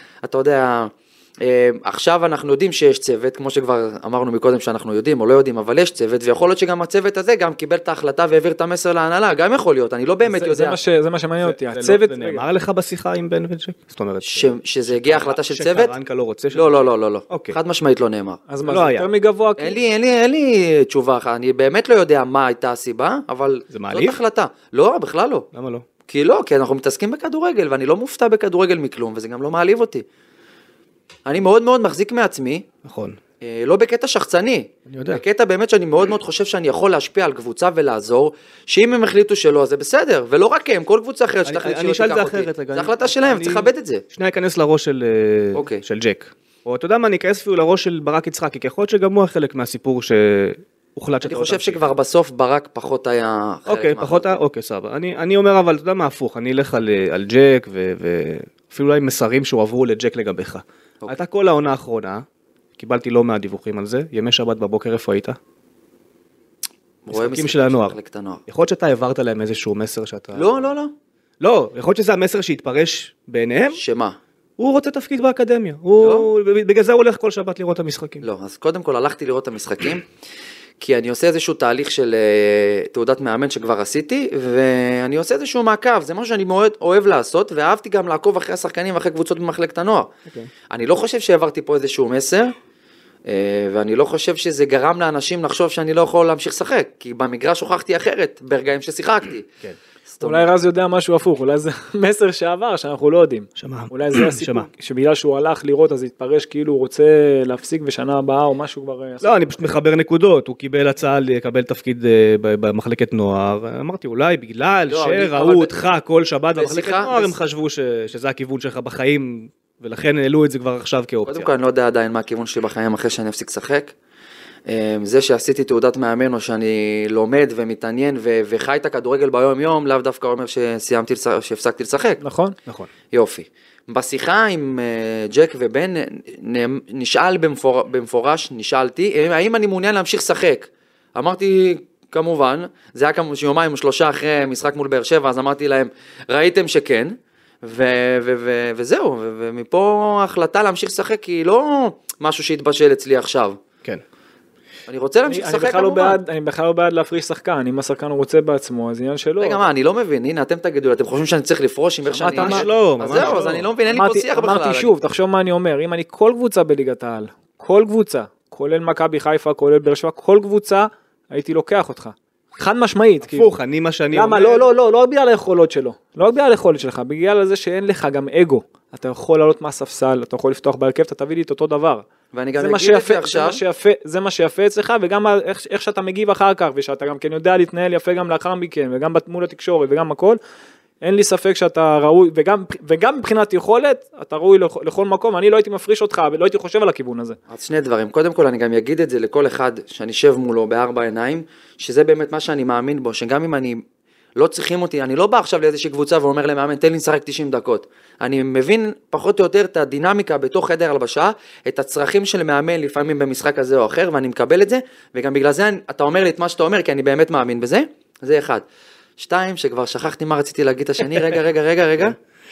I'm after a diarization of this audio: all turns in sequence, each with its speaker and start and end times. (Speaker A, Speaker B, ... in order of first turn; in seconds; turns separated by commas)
Speaker A: 0.2-10.8, Speaker B: 10.2-12.4, Speaker C: 11.4-17.6, Speaker A: 14.3-15.9, Speaker A: 16.5-18.4, Speaker B: 18.5-19.8, Speaker C: 18.6-19.1, Speaker A: 19.6-25.5, Speaker C: 23.7-24.2, Speaker C: 25.5-25.8, Speaker A: 26.1-30.0, Speaker A: 31.2-32.6, Speaker C: 32.8-33.2, Speaker A: 33.4-44.0, Speaker C: 34.9-35.2, Speaker C: 41.4-51.8, Speaker A: 45.5-45.8, Speaker A: 51.2-54.3, Speaker C: 53.6-62.2, Speaker C: 62.8-65.4, Speaker A: 67.0-68.4, Speaker C: 67.1-68.0, Speaker C: 68.5-70.6, Speaker A: 70.3-70.9, Speaker C: 71.4-73.8, Speaker A: 73.7-74.2, Speaker C: 74.6-78.2, Speaker A: 76.0-76.3, Speaker A: 78.2-80.0, Speaker A: 80.8-90.1, Speaker A: 90.7-92.5, Speaker A: 93.2-99.5, Speaker A: 100.1-100.5, Speaker B: 100.2-109.6, Speaker C: 103.6-104.7, Speaker C: 109.2-121.5, Speaker A: 114.9-115.7, Speaker A: 116.6-117.3, Speaker A: 121.3-123.9, Speaker A: 124.7-132.2, Speaker B: 132.2-132.6, Speaker A: 133.1-153.6, Speaker A: 154.9-156.2, Speaker B: 155.2-159.6, Speaker A: 159.4-164.9, Speaker B: 162.1-173.5, Speaker C: 162.2-163.7, Speaker C: 173.2-174.7, Speaker B: 174.1-190.4, Speaker A: 182.3-183.6, Speaker B: 191.0-197.4, Speaker A: 197.5-203.8, Speaker A: 204.3-218.6, Speaker A: 219.2-222.2